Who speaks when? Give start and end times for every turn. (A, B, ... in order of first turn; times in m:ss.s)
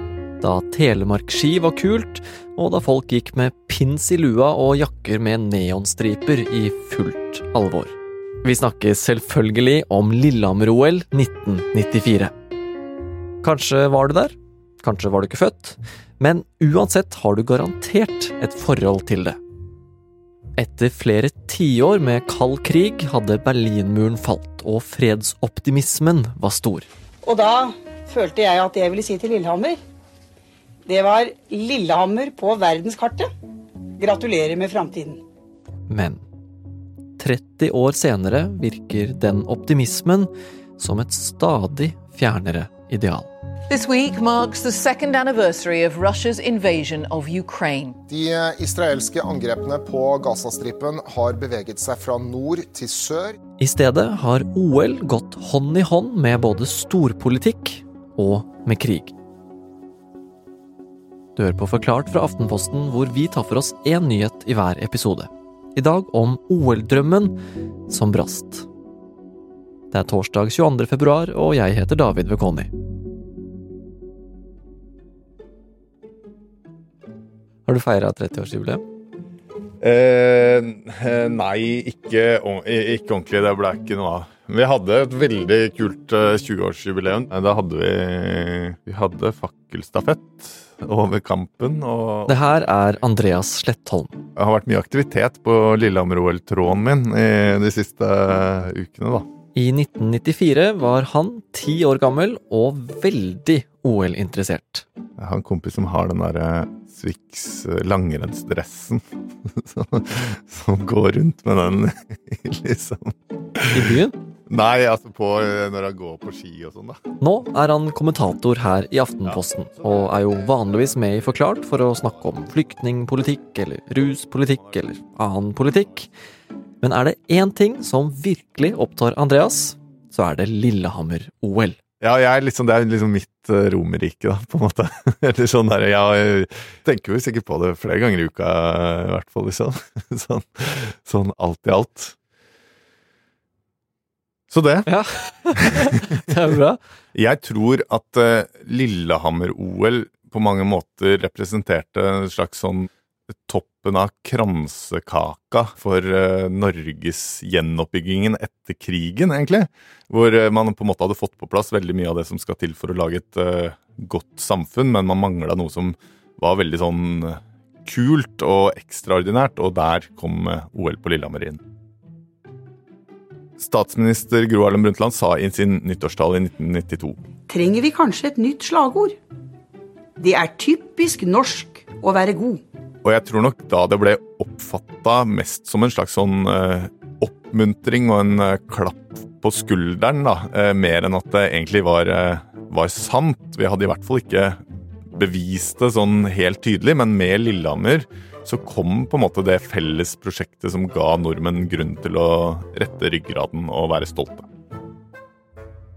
0:00.4-0:12.3 A
0:13.4-0:19.4 A
0:20.6-0:26.9 A
0:27.2-0:29.8 B
0:30.9-0:33.3 B
0:34.0-0:35.2 B
0:35.9-0:36.2 A
0:37.2-0:43.3 A
0:43.7-0:48.0 C
0:48.1-0:53.4 D
0:53.6-0:59.1 A
1:01.4-1:07.4 A
1:07.9-1:08.7 A
1:09.9-1:12.7 A
1:17.7-1:18.8 A
1:19.8-1:32.4 E
1:32.3-1:34.2 A
1:34.4-1:39.3 E
1:39.6-1:44.8 A
1:45.2-1:49.0 E
1:49.6-1:53.1 E
1:53.7-1:54.2 A
1:54.5-1:57.0 E
1:57.2-2:06.1 A
2:06.8-2:11.8 A
2:12.0-2:22.2 E
2:24.5-2:24.9 E
2:24.9-2:26.8 A
2:27.1-2:32.9 E
2:33.5-2:51.6 E
2:53.6-2:57.2 E
2:57.5-2:59.2 B
3:00.2-3:02.6 B
3:03.0-3:14.6 E
3:15.1-3:24.5 E